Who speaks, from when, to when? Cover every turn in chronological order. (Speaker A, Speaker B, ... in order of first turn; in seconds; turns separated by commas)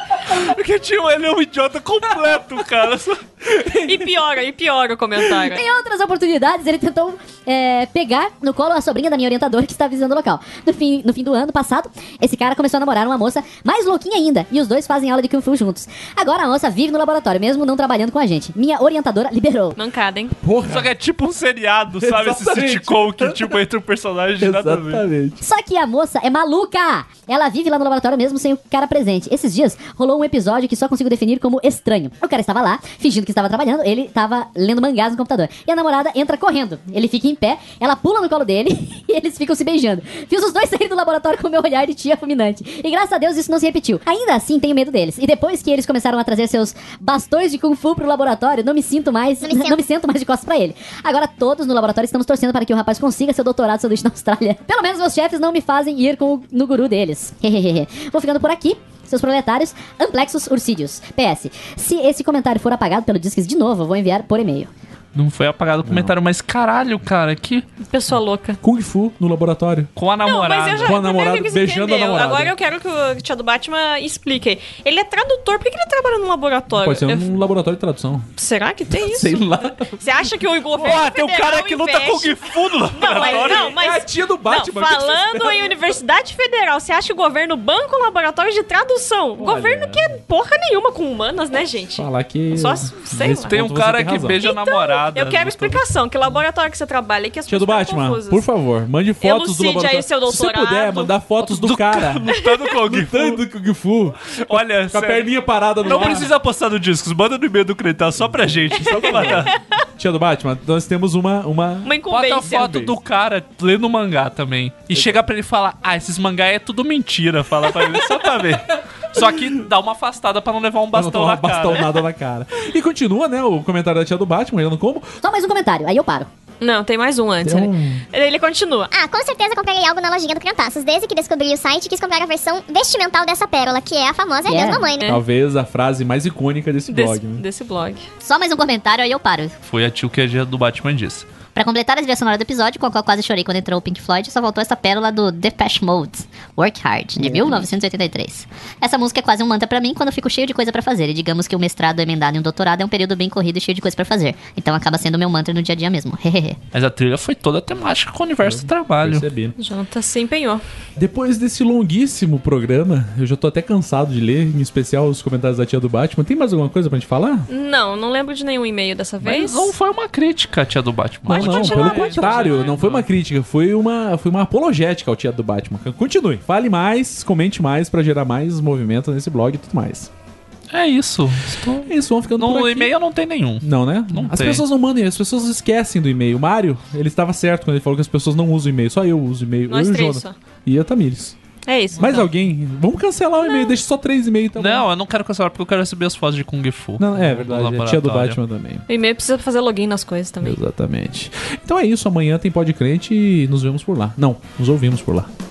Speaker A: 0.3-3.2, Speaker B: 3.5-4.0, Speaker C: 3.8-5.6, Speaker D: 5.5-19.8, Speaker C: 19.8-20.4, Speaker B: 20.4-20.9, Speaker A: 20.6-25.1, Speaker B: 22.0-23.6, Speaker B: 24.4-25.4, Speaker D: 25.4-64.7, Speaker E: 49.4-49.8, Speaker A: 65.1-67.7, Speaker B: 65.8-66.1, Speaker C: 67.8-68.6, Speaker B: 68.6-69.9, Speaker A: 70.0-71.0, Speaker C: 70.2-77.3, Speaker B: 70.8-72.5, Speaker B: 76.7-78.3, Speaker C: 78.4-93.5, Speaker B: 78.9-80.1, Speaker A: 80.7-83.7, Speaker B: 83.0-85.8, Speaker B: 89.4-90.2, Speaker B: 92.0-94.4, Speaker A: 93.4-95.8, Speaker C: 94.4-98.4, Speaker B: 97.5-102.3, Speaker C: 99.2-101.1, Speaker A: 101.4-103.4, Speaker B: 102.9-106.3, Speaker A: 104.4-105.3, Speaker C: 105.8-106.3, Speaker A: 105.8-109.5, Speaker B: 108.7-113.0, Speaker C: 108.9-109.5, Speaker C: 111.8-112.8, Speaker A: 112.1-121.9, Speaker B: 119.1-119.6, Speaker B: 120.9-125.1, Speaker D: 125.2-126.3, Speaker C: 126.6-128.9, Speaker B: 127.4-128.0, Speaker E: 128.9-135.2, Speaker D: 134.4-134.9, Speaker C: 135.0-135.2, Speaker B: 135.0-137.4, Speaker C: 136.9-138.1, Speaker F: 138.2-139.6, Speaker A: 139.6-141.2, Speaker F: 141.5-156.6, Speaker A: 156.7-159.3, Speaker B: 158.4-159.6, Speaker C: 159.6-160.6, Speaker B: 161.0-167.5, Speaker C: 167.5-169.7, Speaker A: 169.2-173.1, Speaker C: 171.3-172.7, Speaker B: 171.3-180.1, Speaker A: 180.7-184.6, Speaker B: 181.8-182.9, Speaker B: 183.6-191.4, Speaker C: 189.7-190.3, Speaker C: 191.7-192.3, Speaker B: 191.9-194.8, Speaker A: 194.6-198.4, Speaker B: 197.0-198.8, Speaker C: 198.9-200.6, Speaker B: 200.4-205.3